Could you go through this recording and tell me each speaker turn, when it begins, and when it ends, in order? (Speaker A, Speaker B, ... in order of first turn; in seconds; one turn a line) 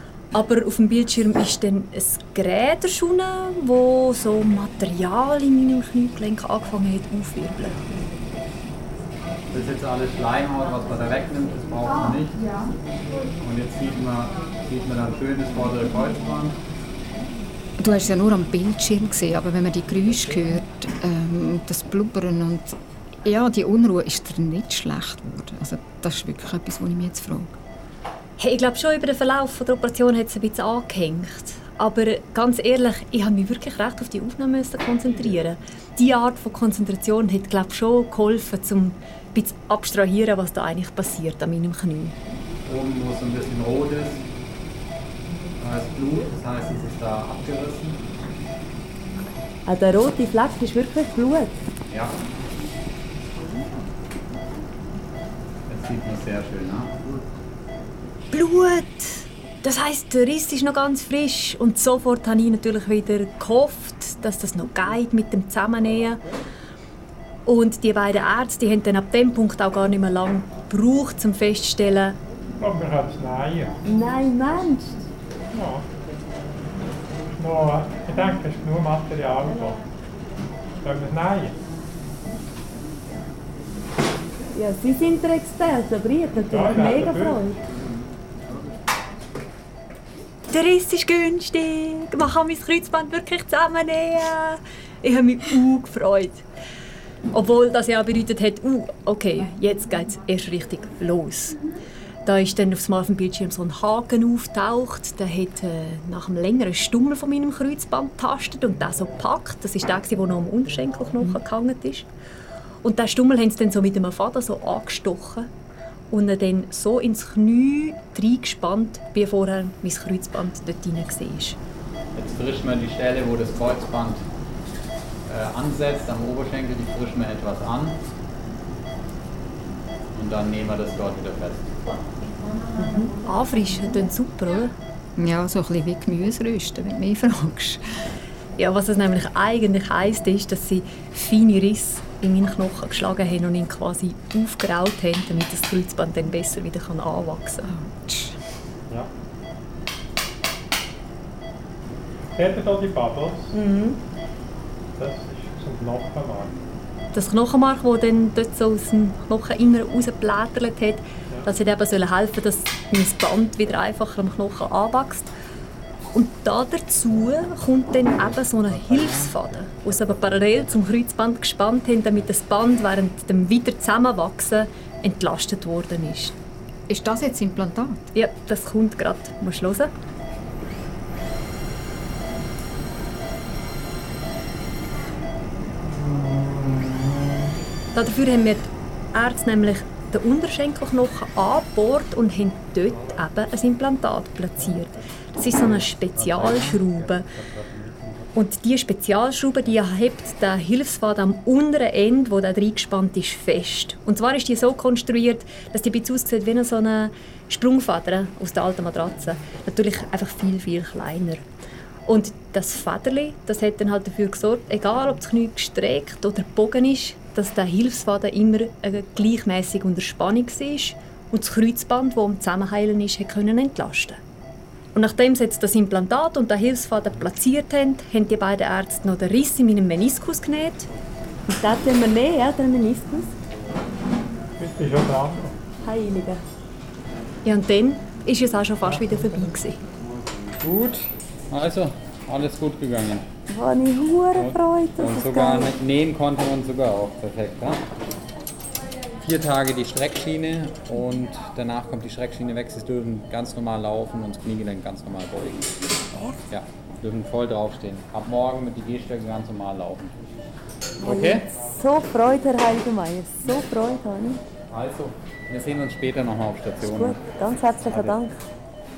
Speaker A: 0.3-7.8
Speaker B: 9.5-12.6
Speaker B: 13.4-16.6
Speaker C: 17.8-27.6
Speaker A: 28.4-42.1
Speaker B: 42.6-44.2
Speaker B: 45.6-48.0
Speaker D: 49.6-51.5
Speaker B: 51.9-52.2
Speaker B: 55.7-56.9
Speaker A: 58.3-66.2
Speaker A: 67.5-72.2
Speaker E: 72.6-73.8
Speaker D: 73.8-75.0
Speaker E: 75.5-75.8
Speaker E: 77.3-79.8
Speaker E: 80.8-81.6
Speaker D: 84.5-87.6
Speaker E: 86.5-87.4
Speaker A: 90.5-96.4
Speaker A: 97.3-101.6
Speaker A: 102.2-112.1
Speaker A: 112.8-115.5
Speaker A: 116.1-121.6
Speaker B: 122.1-124.2
Speaker B: 125.2-128.0
Speaker B: 130.1-131.7
Speaker A: 132.8-134.7
Speaker C: 135.2-137.8
Speaker A: 138.6-147.7
Speaker C: 147.7-148.4
Speaker E: 152.3-153.5
Speaker E: 155.0-156.6
Speaker A: 157.1-165.3
Speaker A: 166.1-176.3
Speaker C: 176.9-178.1
Speaker A: 178.1-179.9
Speaker A: 187.9-197.3
Speaker E: 196.3-198.3
Speaker A: 198.3-211.4
Speaker A: 212.1-224.2
Speaker A: 224.9-230.9
Speaker D: 231.5-233.3
Speaker E: 234.6-235.5
Speaker D: 235.8-236.4
Speaker A: 237.4-239.8
Speaker E: 238.9-239.5
Speaker B: 240.6-243.2
Speaker D: 243.5-245.7
Speaker B: 244.3-247.8
Speaker B: 249.2-255.7
Speaker D: 256.1-256.4
Speaker B: 256.5-260.1
Speaker D: 261.0-264.4
Speaker B: 261.0-261.5
Speaker B: 264.7-267.2
Speaker D: 266.8-268.3
Speaker B: 267.9-268.1